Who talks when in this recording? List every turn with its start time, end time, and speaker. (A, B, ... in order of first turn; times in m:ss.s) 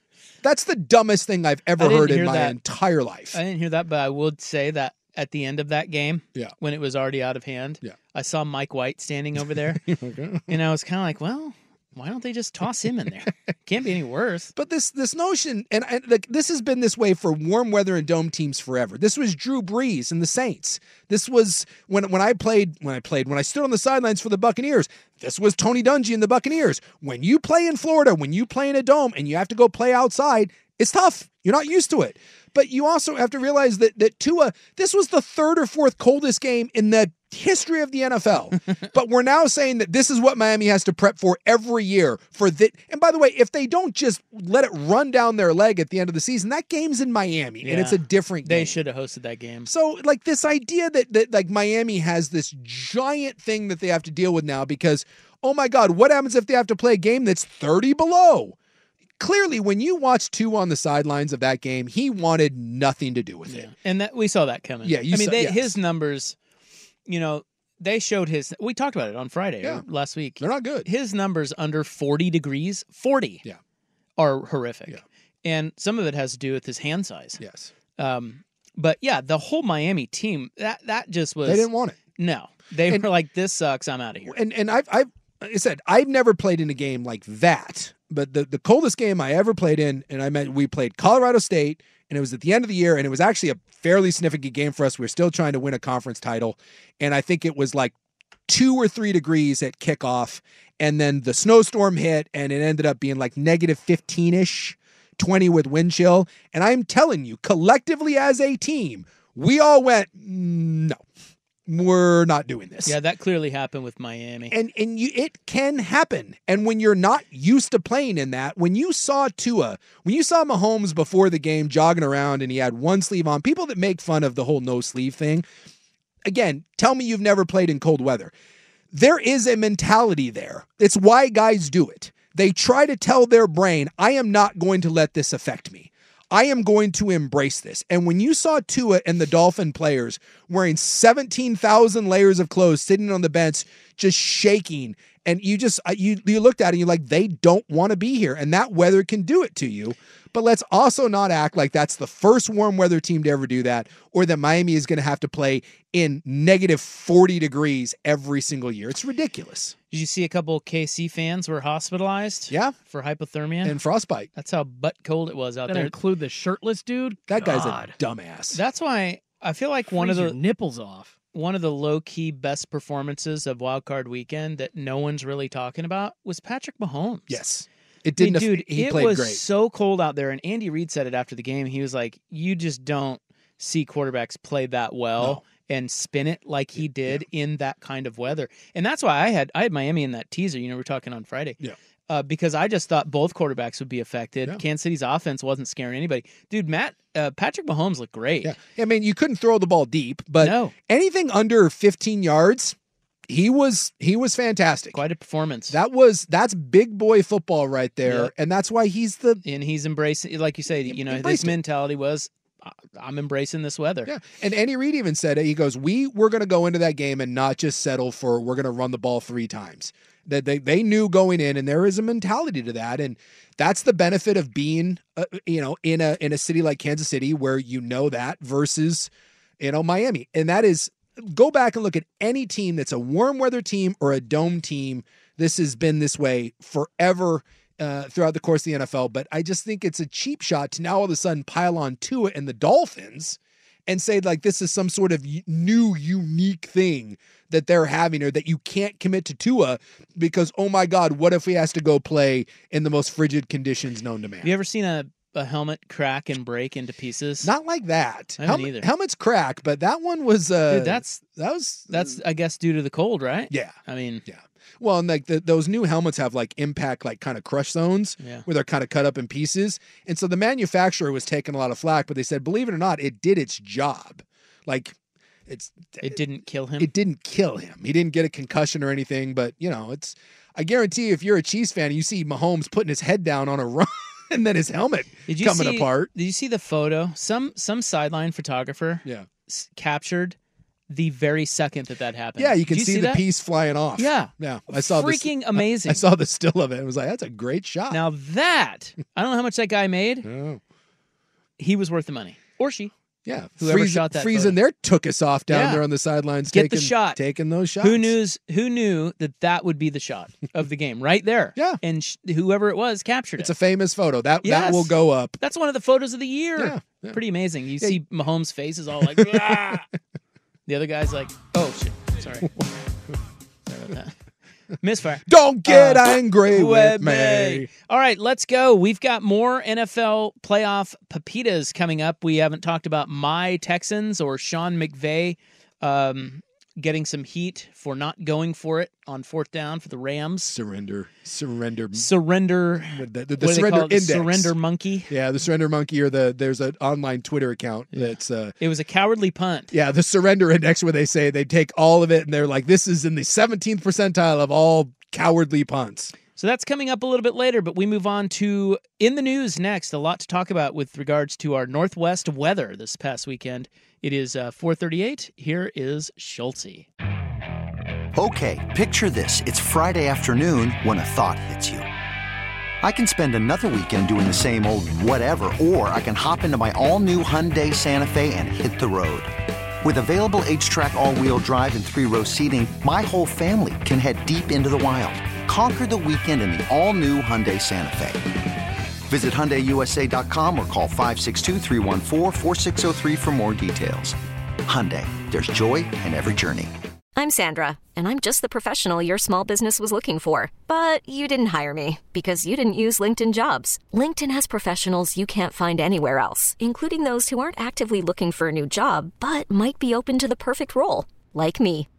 0:00.4-0:03.4 A
0:01.8-0:02.6 B
0:03.3-0:09.8 B
0:09.8-0:10.5 A
0:10.5-0:14.5 B
0:14.5-0:48.8 A
0:47.6-0:49.7 B
0:49.6-0:58.6 A
0:59.2-1:03.7 A
1:03.5-1:06.4 B
1:04.8-1:05.8 A
1:07.0-1:13.4 B
1:10.4-1:10.9 A
1:14.2-1:17.4 B
1:17.4-1:17.7 A
1:18.0-1:24.4 B
1:21.4-1:22.0 A
1:24.2-1:37.9 A
1:38.5-1:51.0 A
1:51.7-1:53.0 A
1:52.8-1:54.5 B
1:54.5-2:05.4 A
2:06.2-2:08.3 A
2:08.9-2:39.7 A
2:39.9-2:43.8 B
2:42.5-2:42.8 A
2:43.6-2:44.3 A
2:44.3-2:45.9 B
2:45.7-2:48.0 C
2:47.3-2:48.6 A
2:48.5-2:50.4 B
2:49.9-2:51.1 C
2:51.3-2:57.4 B
2:57.3-2:59.4 A
2:58.2-3:18.6 B
3:06.8-3:07.2 A
3:18.4-3:22.8 A
3:20.4-3:20.7 B
3:23.3-3:25.0 A
3:24.9-3:25.8 B
3:25.7-3:29.4 A
3:28.0-3:28.3 B
3:29.4-3:34.1 B
3:30.8-3:31.6 A
3:34.0-4:14.5 A
4:14.4-4:17.5 B
4:17.4-4:22.2 A
4:18.4-4:18.9 B
4:20.7-4:21.2 B
4:21.9-4:24.2 B
4:23.5-4:34.9 A
4:28.2-4:28.5 B
4:35.5-4:36.2 A
4:36.0-4:36.9 B
4:36.8-4:46.1 A
4:45.3-4:50.4 B
4:50.9-4:53.2 B
4:52.4-4:58.0 A
4:54.0-4:56.0 B
4:57.9-5:00.3 B
5:00.2-5:00.6 A
5:01.6-5:02.9 B
5:03.2-5:08.1 A
5:03.6-5:04.6 B
5:05.5-5:05.8 B
5:06.5-5:07.2 B
5:07.8-5:13.5 B
5:13.4-5:15.4 A
5:14.4-5:19.8 B
5:16.6-5:17.2 A
5:19.1-5:19.8 A
5:20.7-5:22.5 B
5:23.7-5:24.1 B
5:24.8-5:40.5 B
5:25.3-5:27.7 A
5:40.4-5:42.1 A
5:41.9-5:45.1 B
5:42.9-5:44.5 A
5:45.1-5:48.5 A
5:47.9-5:49.7 B
5:49.7-5:56.1 A
5:56.3-6:06.9 B
6:08.2-6:11.9 D
6:12.8-6:19.3 D
6:19.8-6:28.3 D
6:29.1-6:36.7 D
6:37.2-6:51.9 E